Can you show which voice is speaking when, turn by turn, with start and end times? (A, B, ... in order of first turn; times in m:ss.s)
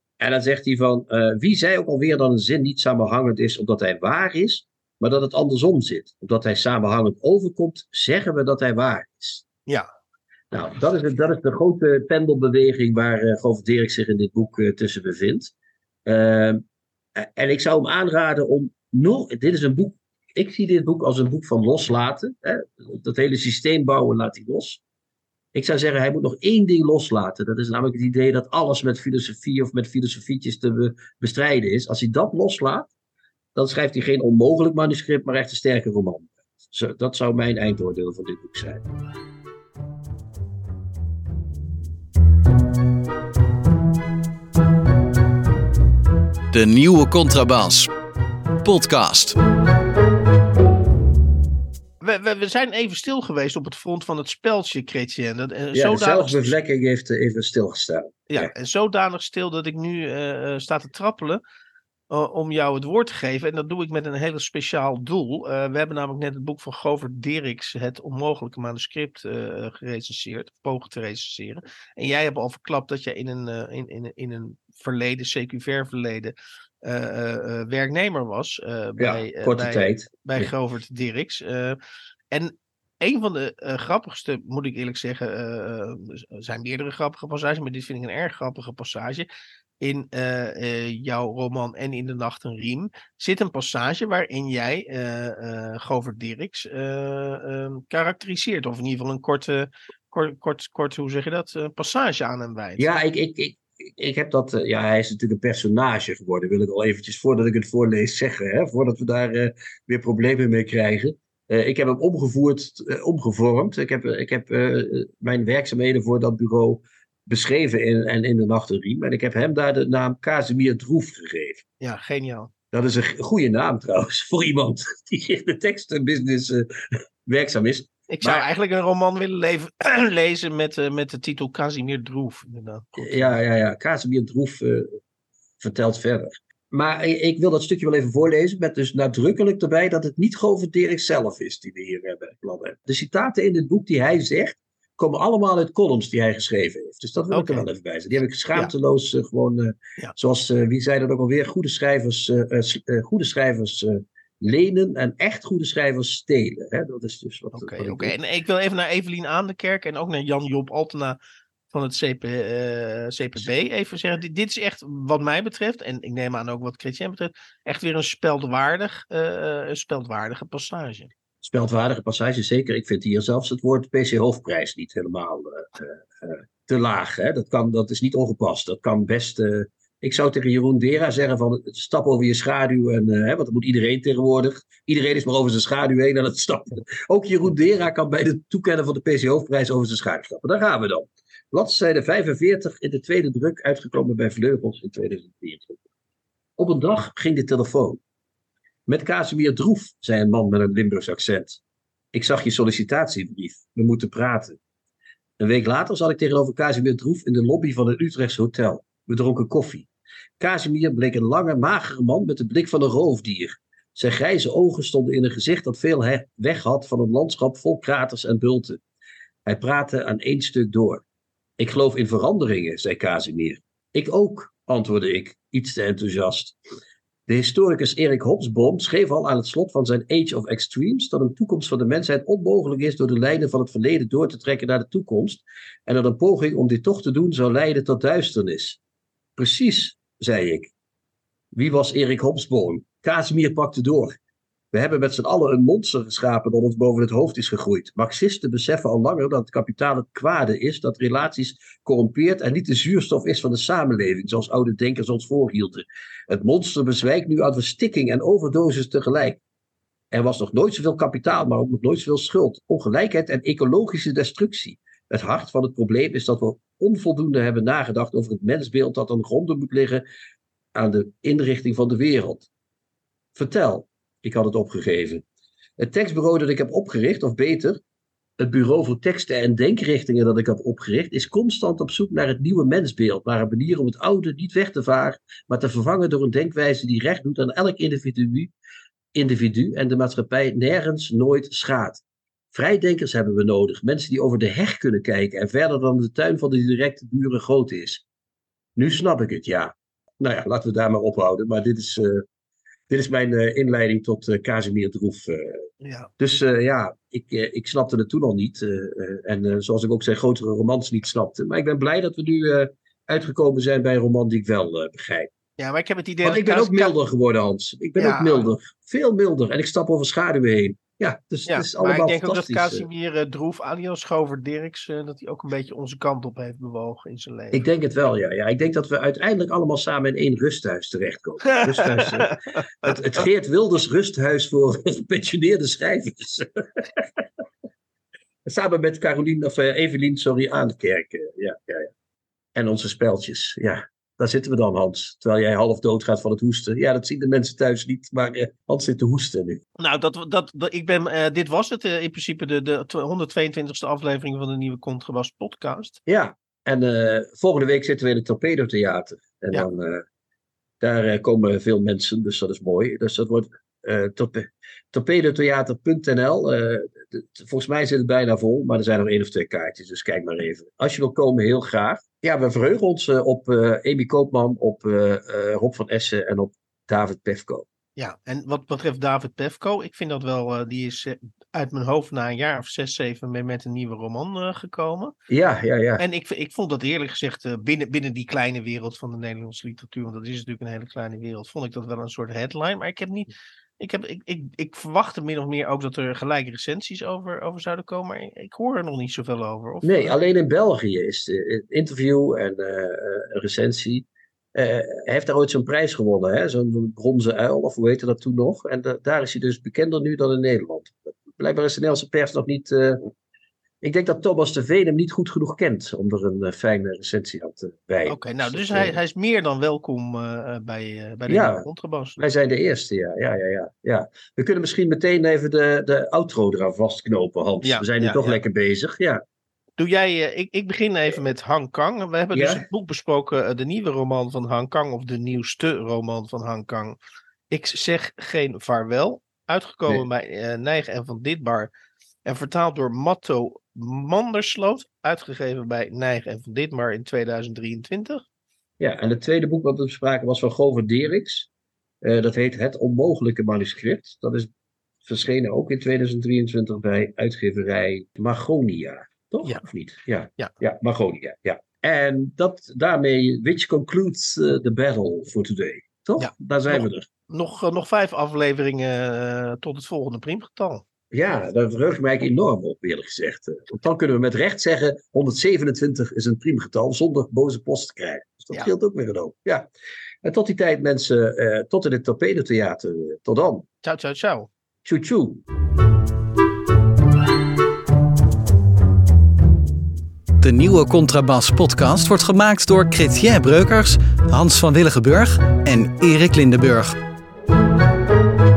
0:00.2-0:09.4 A
0:10.5-0:15.5 A
0:16.1-0:16.6 A
0:17.2-0:24.8 A
0:25.5-0:32.9 A
0:33.6-0:38.8 A
0:46.5-0:47.9 B
0:48.6-0:49.4 B
0:52.0-0:56.6 C
0:55.7-0:58.5 A
0:58.3-1:01.4 C
1:02.1-1:21.8 C
1:19.0-1:20.5 A
1:22.3-1:29.3 C
1:29.8-1:42.9 C
1:42.8-2:01.6 A
2:01.8-2:02.5 C
2:02.7-2:08.5 A
2:08.1-2:13.4 C
2:13.0-2:15.0 A
2:15.6-2:38.2 A
2:27.3-2:27.7 C
2:37.5-2:41.2 C
2:41.7-2:51.1 C
2:51.4-3:15.8 A
3:16.6-3:18.0 A
3:18.9-3:21.6 A
3:22.1-3:24.6 A
3:25.4-3:29.9 A
3:30.4-3:38.8 A
3:39.5-3:41.0 A
3:41.6-3:46.6 A
3:47.3-3:58.8 A
3:59.4-4:00.7 A
4:01.5-4:04.1 A
4:04.7-4:19.4 A
4:20.1-4:30.0 A
4:30.7-4:32.5 A
4:33.4-4:35.2 A
4:35.8-4:37.8 A
4:38.4-4:48.5 A
4:49.1-4:52.0 A
4:52.5-4:58.0 A
4:58.8-5:02.2 A
5:02.9-5:05.6 A
5:05.8-5:06.1 C
5:06.2-5:15.3 A
5:15.6-5:17.0 C
5:16.2-5:22.9 A
5:18.0-5:18.5 C
5:21.5-5:27.6 C
5:27.5-5:37.2 A
5:31.4-5:33.1 C
5:38.4-5:41.9 A
5:42.6-5:49.6 A
5:49.8-5:56.0 C
5:56.1-6:00.0 A
6:00.8-6:17.7 A
6:18.0-6:25.1 C
6:25.3-6:26.0 A
6:26.0-6:40.2 C
6:39.8-6:53.1 A
6:53.8-6:59.0 A
6:58.1-7:02.2 C
7:01.3-7:09.2 A
7:07.6-7:08.4 C
7:09.8-7:17.0 C
7:12.3-7:12.6 A
7:17.5-7:21.7 C
7:22.3-7:28.2 C
7:28.8-7:31.5 A
7:32.0-7:34.5 A
7:35.0-7:47.1 A
7:46.2-7:50.8 C
7:51.1-7:59.7 A
8:00.2-8:03.7 A
8:03.8-8:04.5 C
8:04.8-8:05.4 A
8:10.4-8:17.0 B